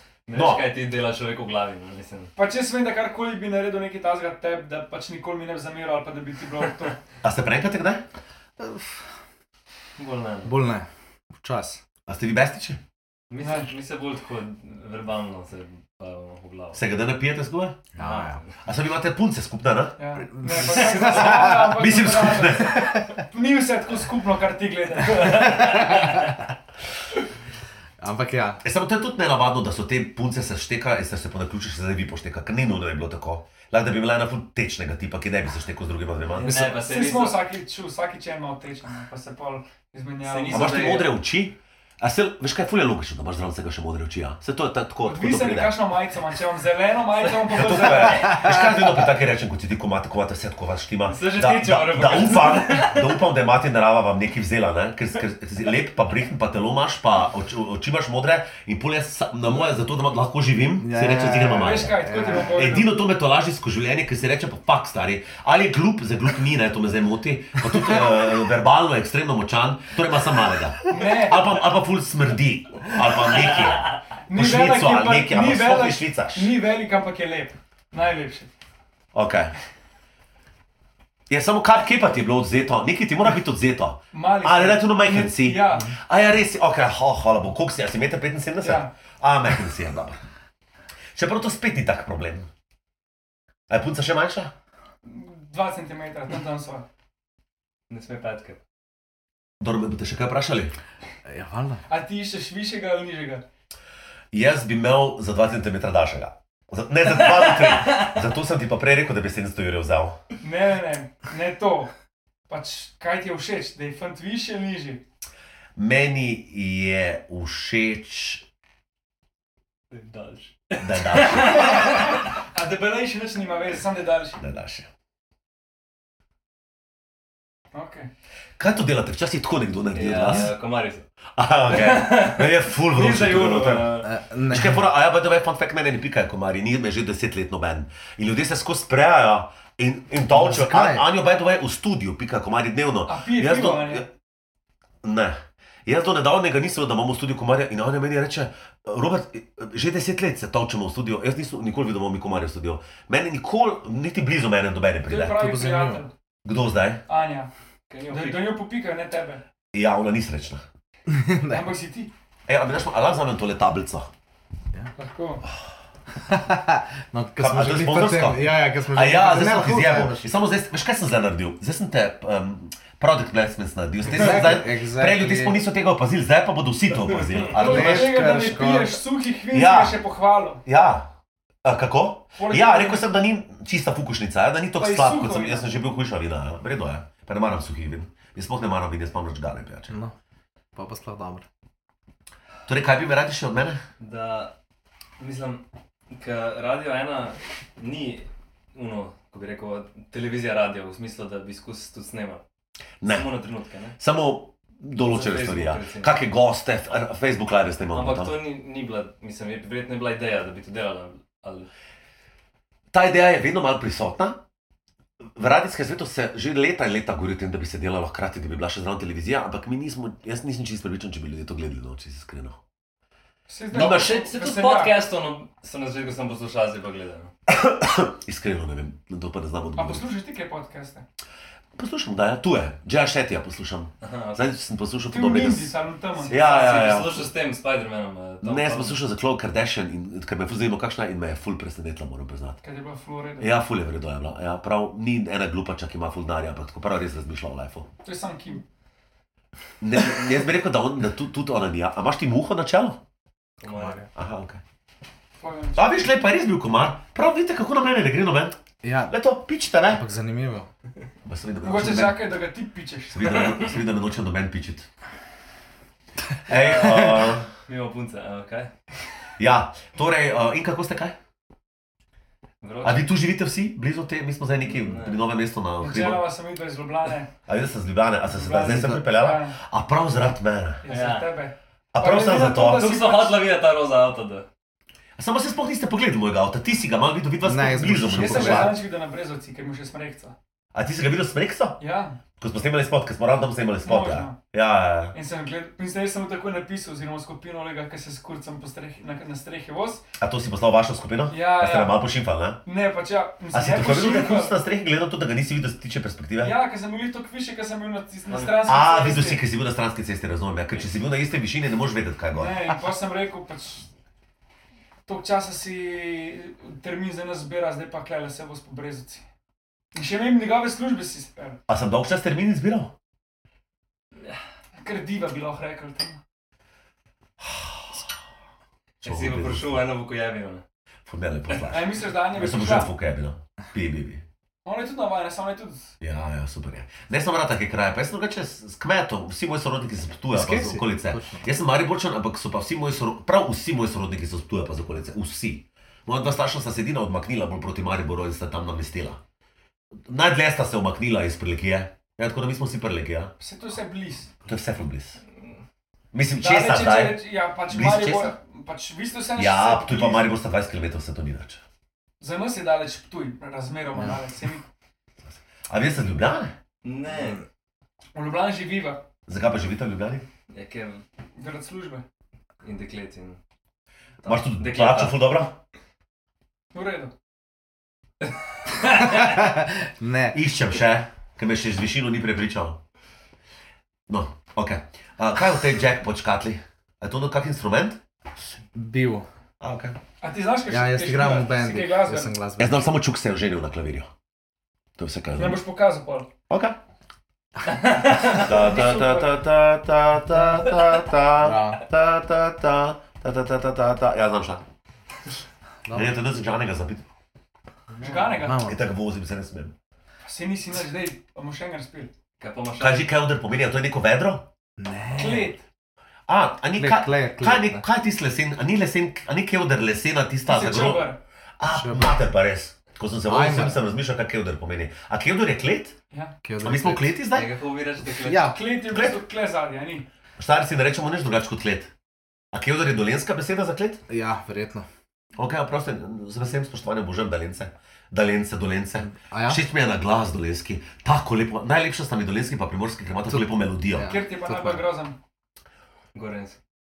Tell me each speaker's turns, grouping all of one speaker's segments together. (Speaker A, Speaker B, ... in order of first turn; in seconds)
Speaker A: 0.3-2.3, 10.0-10.5, 13.3-16.8, 18.0-18.6, 36.3-37.4, 40.2-41.1, 51.1-53.1, 97.9-98.6, 107.6-108.1, 119.9-122.3, 129.9-131.1, 131.7-134.1, 157.9-158.6, 194.0-194.5, 195.2-202.4, 203.1-204.0, 205.0-206.1, 207.9-211.7, 223.7-227.3, 234.0-234.4, 236.2-239.0, 253.6-254.1, 266.5-268.7, 272.6-273.1, 274.6-275.2, 280.9-281.4, 282.6-284.5, 329.0-330.6, 366.8-367.4, 370.5-371.0, 372.6-373.4, 374.3-375.2, 378.3-379.2, 397.7-398.5, 412.4-413.1, 427.3-428.7, 446.1-446.6
Speaker B: 0.3-0.7, 7.2-8.1, 12.1-12.8, 16.7-17.9, 18.6-20.0, 20.8-23.1, 28.6-36.6, 40.5-45.8, 47.5-76.5, 79.1-79.5, 81.3-90.2, 91.2-92.5, 93.7-94.5, 99.6-100.7, 104.3-110.2, 115.8-118.5, 120.8-121.9, 124.4-124.9, 128.6-130.6, 131.4-144.1, 145.0-155.4, 156.4-157.0, 159.7-160.7, 162.5-164.1, 167.4-178.2, 179.5-180.0, 180.7-181.1, 181.6-189.9, 192.7-193.8, 203.0-203.3, 204.0-208.4, 212.9-214.4, 215.3-222.6, 223.7-224.2, 227.5-230.1, 231.8-235.7, 236.3-237.3, 238.4-242.6, 243.4-247.9, 249.8-253.0, 254.2-254.6, 255.8-260.0, 261.2-262.3, 263.1-264.9, 266.5-267.5, 269.4-271.2, 272.8-276.3, 277.5-280.8, 281.9-282.9, 285.2-288.8, 290.7-291.8, 292.4-295.1, 300.2-302.6, 303.5-306.6, 308.6-312.7, 321.7-322.9, 327.4-328.1, 329.0-329.9, 331.1-334.2, 336.0-349.2, 350.1-353.3, 354.4-355.2, 356.1-358.3, 359.4-361.6, 365.7-366.6, 369.3-370.3, 374.2-375.6, 380.3-382.8, 384.1-388.0, 389.6-390.0, 392.6-394.1, 395.0-395.6, 396.5-396.8, 398.3-404.6, 405.9-407.0, 408.6-409.7, 412.8-414.5, 416.3-426.0, 426.6-427.5, 428.9-429.2, 430.4-431.9, 432.5-434.0, 435.4-444.1
Speaker C: 2.4-7.0, 13.4-13.7, 20.0-26.2, 36.6-41.1, 45.1-48.6, 61.5-62.9, 70.9-71.5, 74.3-78.5, 84.1-85.9, 88.6-88.9, 95.0-96.8, 101.9-103.4, 110.4-111.9, 112.5-115.0, 121.4-124.4, 127.7-128.1, 133.0-133.9, 143.1-144.1, 155.1-156.1, 157.1-157.5, 158.1-159.4, 161.5-162.1, 165.0-165.4, 177.5-180.6, 182.4-183.0, 184.8-185.7, 223.5-224.9, 229.8-231.0, 235.1-237.0, 242.6-243.5, 248.0-248.7, 255.4-255.9, 261.6-263.4, 275.8-277.3, 278.3-279.6, 280.8-283.4, 288.2-290.4, 291.8-292.2, 293.9-294.4, 295.1-300.1, 301.3-302.0, 302.6-304.6, 306.4-309.4, 312.3-313.9, 315.1-319.2, 319.9-321.6, 324.8-326.2, 331.7-332.9, 334.6-335.9, 353.4-354.3, 356.4-360.3, 362.2-364.7, 368.1-369.0, 371.4-372.0, 376.7-377.1, 390.2-392.3, 395.4-396.3, 398.3-399.3, 408.0-408.6, 410.3-412.1, 415.2-415.6, 420.5-421.2, 428.4-430.1, 444.0-445.2
Speaker D: 8.6-9.0, 10.4-10.9, 11.4-11.8, 17.9-18.4, 20.2-21.8, 25.6-26.1, 28.0-28.6, 36.4-36.8, 60.8-62.6, 101.3-101.8, 134.0-134.8, 140.3-141.1, 155.3-156.1, 161.1-161.7, 166.2-170.3, 174.1-175.6, 177.5-179.0, 189.9-190.1, 190.8-191.4, 253.7-254.0, 258.8-259.2, 259.9-260.7, 287.4-288.8, 340.3-341.5, 379.0-380.4, 388.8-389.3, 390.7-392.8, 401.4-401.8, 405.9-406.1, 408.0-408.8, 414.8-415.5, 416.8-417.9, 421.7-422.1, 423.3-423.8, 426.4-427.1, 428.1-428.6, 434.1-434.9, 439.0-439.6, 443.3-444.9